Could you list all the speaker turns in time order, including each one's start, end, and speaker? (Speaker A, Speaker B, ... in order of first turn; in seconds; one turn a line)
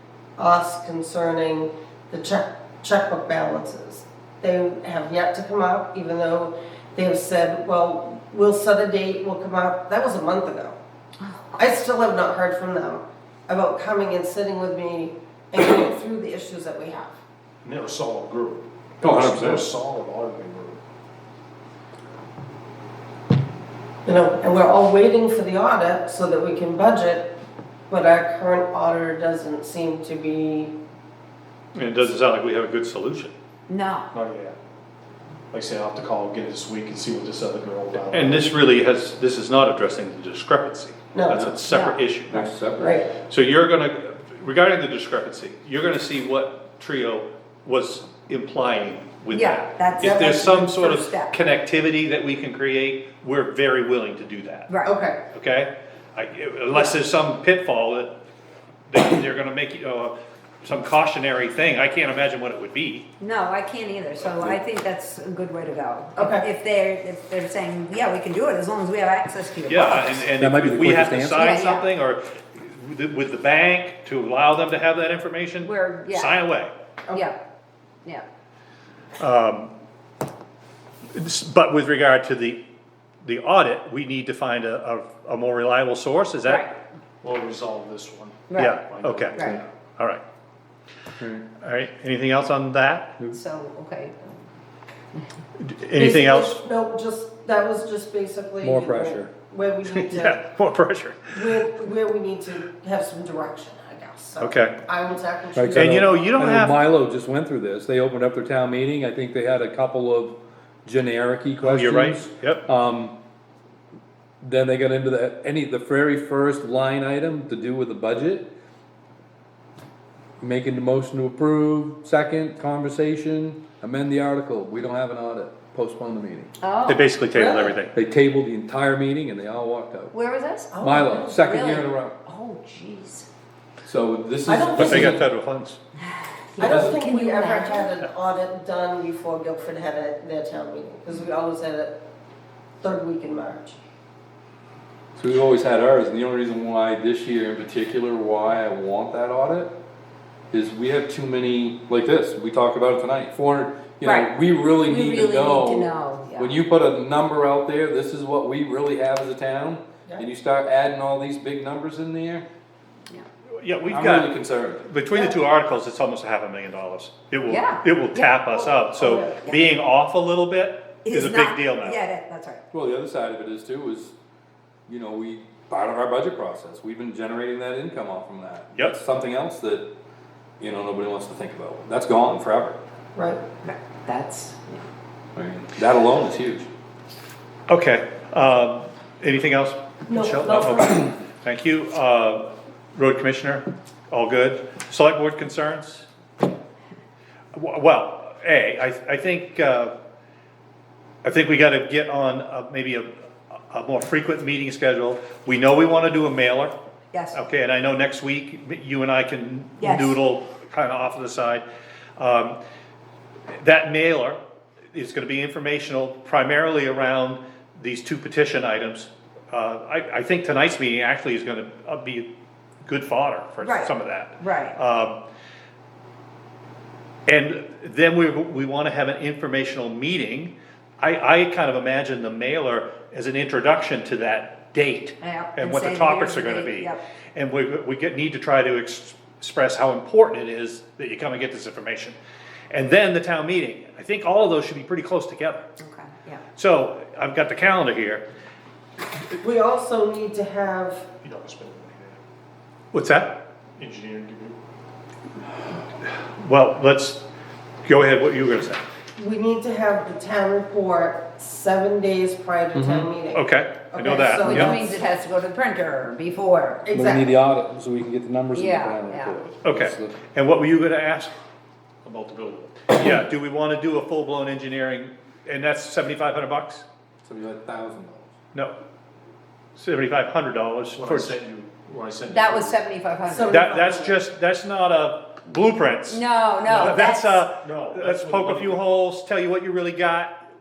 Speaker A: 0.4-10.8
Speaker B: 11.2-11.6
Speaker A: 11.6-17.2
Speaker C: 17.6-20.8
Speaker D: 19.0-19.7
Speaker A: 24.1-27.3
Speaker A: 27.9-30.8
Speaker E: 31.7-33.3
Speaker B: 33.7-34.1
Speaker C: 34.1-34.6
Speaker C: 35.5-38.5
Speaker E: 38.1-42.5
Speaker A: 41.1-41.5
Speaker D: 41.3-41.6
Speaker B: 41.7-42.0
Speaker D: 42.3-43.0
Speaker A: 42.8-43.1
Speaker E: 43.3-54.7
Speaker B: 49.3-51.3
Speaker A: 50.0-50.5
Speaker B: 54.7-54.9
Speaker A: 54.8-55.2
Speaker E: 55.3-58.1
Speaker E: 58.9-63.1
Speaker B: 63.2-70.2
Speaker A: 66.2-66.5
Speaker E: 69.7-76.7
Speaker D: 70.3-71.5
Speaker B: 71.4-71.9
Speaker B: 75.6-76.4
Speaker B: 77.1-77.4
Speaker E: 79.2-79.7
Speaker E: 81.1-82.6
Speaker E: 83.2-86.7
Speaker B: 86.5-86.7
Speaker C: 87.2-89.7
Speaker B: 88.5-88.8
Speaker E: 88.6-90.2
Speaker D: 91.2-91.5
Speaker E: 91.6-93.2
Speaker B: 93.3-94.4
Speaker E: 95.6-96.6
Speaker A: 96.0-100.4
Speaker D: 98.6-99.3
Speaker E: 99.9-101.6
Speaker A: 101.3-106.3
Speaker E: 104.4-104.8
Speaker D: 105.6-113.2
Speaker E: 105.8-106.8
Speaker E: 111.6-112.7
Speaker D: 114.4-118.5
Speaker D: 120.4-126.5
Speaker B: 126.6-127.1
Speaker E: 126.9-127.9
Speaker A: 127.3-127.8
Speaker D: 127.9-130.1
Speaker B: 130.1-133.3
Speaker A: 130.7-131.4
Speaker D: 130.8-132.2
Speaker D: 133.9-135.2
Speaker A: 134.5-135.2
Speaker E: 134.7-135.8
Speaker B: 136.0-137.9
Speaker A: 136.6-142.0
Speaker D: 136.6-136.9
Speaker A: 142.8-143.8
Speaker D: 145.2-149.7
Speaker D: 150.5-162.5
Speaker B: 154.0-156.6
Speaker E: 163.6-172.0
Speaker D: 163.9-164.8
Speaker A: 165.1-165.4
Speaker B: 167.5-168.3
Speaker A: 168.4-169.4
Speaker B: 171.0-172.6
Speaker D: 172.7-174.2
Speaker D: 174.9-179.9
Speaker D: 180.6-182.8
Speaker A: 183.2-183.4
Speaker B: 183.6-184.8
Speaker D: 185.3-186.7
Speaker E: 187.7-196.1
Speaker A: 190.1-191.1
Speaker E: 197.5-199.9
Speaker E: 201.2-206.7
Speaker B: 207.1-207.4
Speaker E: 207.3-211.7
Speaker B: 209.8-210.2
Speaker E: 212.2-212.6
Speaker E: 213.5-214.4
Speaker E: 214.9-222.3
Speaker E: 222.8-225.2
Speaker B: 223.6-224.8
Speaker E: 227.3-242.2
Speaker B: 235.2-237.0
Speaker E: 242.7-245.7
Speaker B: 245.8-246.4
Speaker E: 246.6-248.2
Speaker A: 249.4-251.1
Speaker C: 251.2-252.2
Speaker E: 252.9-253.4
Speaker C: 253.8-254.6
Speaker E: 256.0-257.2
Speaker E: 257.9-258.8
Speaker A: 259.2-264.9
Speaker D: 262.7-263.1
Speaker E: 263.3-264.8
Speaker B: 264.4-266.9
Speaker A: 266.9-267.4
Speaker D: 266.9-270.2
Speaker B: 268.5-269.4
Speaker E: 269.6-271.3
Speaker C: 272.0-272.9
Speaker E: 272.9-276.9
Speaker D: 277.2-278.3
Speaker E: 279.8-281.4
Speaker C: 280.9-282.8
Speaker B: 282.3-283.6
Speaker A: 283.3-284.2
Speaker E: 283.5-290.3
Speaker B: 286.1-287.5
Speaker C: 286.7-288.8